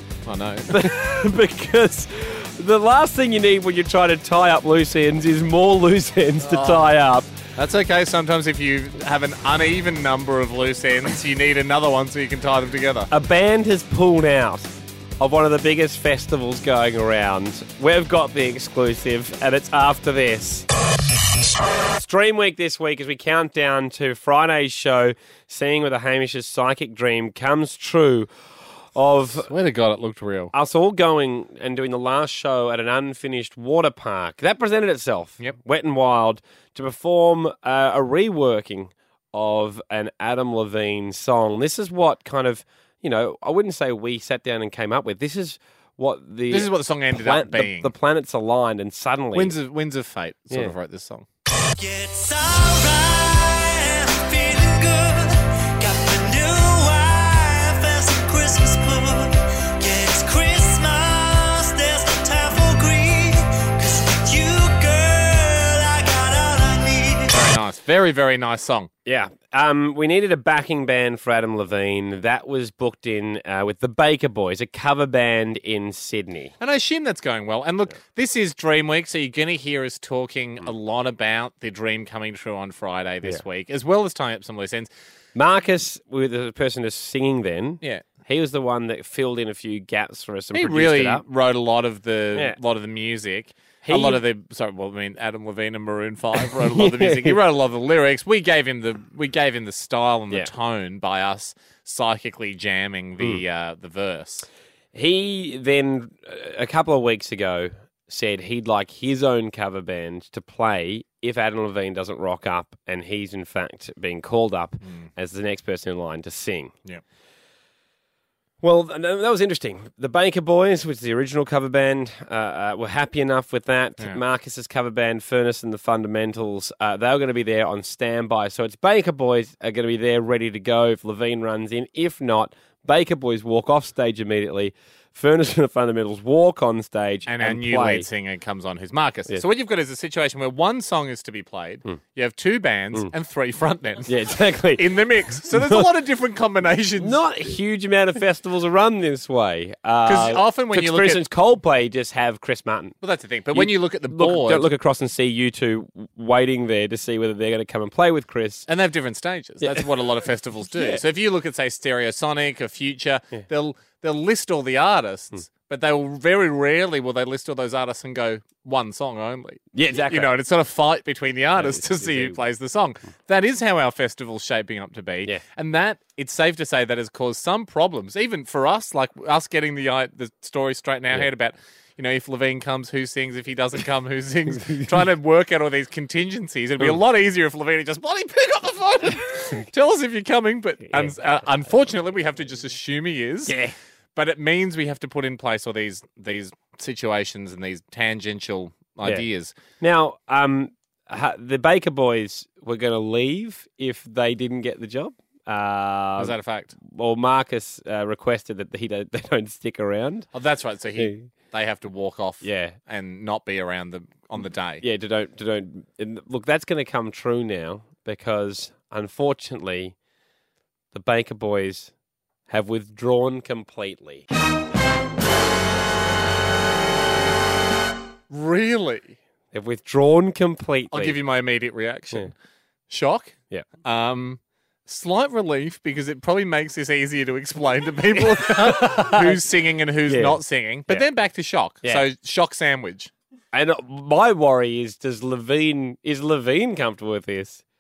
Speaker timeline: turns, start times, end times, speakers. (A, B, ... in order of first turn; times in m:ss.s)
0:00.2-0:00.9 A
0:00.7-0:07.3 B
0:06.4-0:06.9 A
0:07.6-0:13.1 A
0:13.1-0:20.6 B
0:21.9-0:28.3 B
0:29.0-0:29.5 B
0:29.4-0:30.5 A
0:30.5-0:49.5 B
0:46.5-0:47.9 A
0:49.3-0:51.2 A
0:51.6-1:07.3 C
1:07.3-1:08.9 A
1:09.0-1:16.5 B
1:16.6-1:24.9 A
1:25.4-1:31.2 B
1:30.5-1:44.5 A
1:33.8-1:34.2 B
1:36.4-1:37.4 B
1:44.9-1:56.7 B
1:54.8-1:55.1 A
1:58.6-2:18.0 B
2:17.3-2:24.1 A
2:24.0-2:24.8 B
2:24.8-2:27.5 A
2:25.5-2:25.9 B
2:27.0-2:33.0 B
2:30.0-2:31.2 A
2:33.0-2:34.7 A
2:33.5-2:38.6 B
2:38.7-3:13.6 A
2:49.7-2:50.3 B
2:51.6-2:52.4 B
3:10.9-3:11.2 B
3:13.5-3:13.8 B
3:14.2-3:19.5 A
3:19.8-3:26.4 B
3:26.2-3:26.8 A
3:26.9-3:30.3 B
3:30.3-3:34.8 A
3:31.0-3:31.3 B
3:32.4-3:32.8 B
3:34.8-3:40.0 B
3:40.9-3:41.9 B
3:42.5-3:44.2 B
3:48.3-3:49.2 A
3:49.5-3:51.2 B
3:50.9-3:52.3 A
3:52.9-4:03.1 A
3:58.2-3:59.4 B
4:00.1-4:01.0 B
4:03.5-4:07.6 B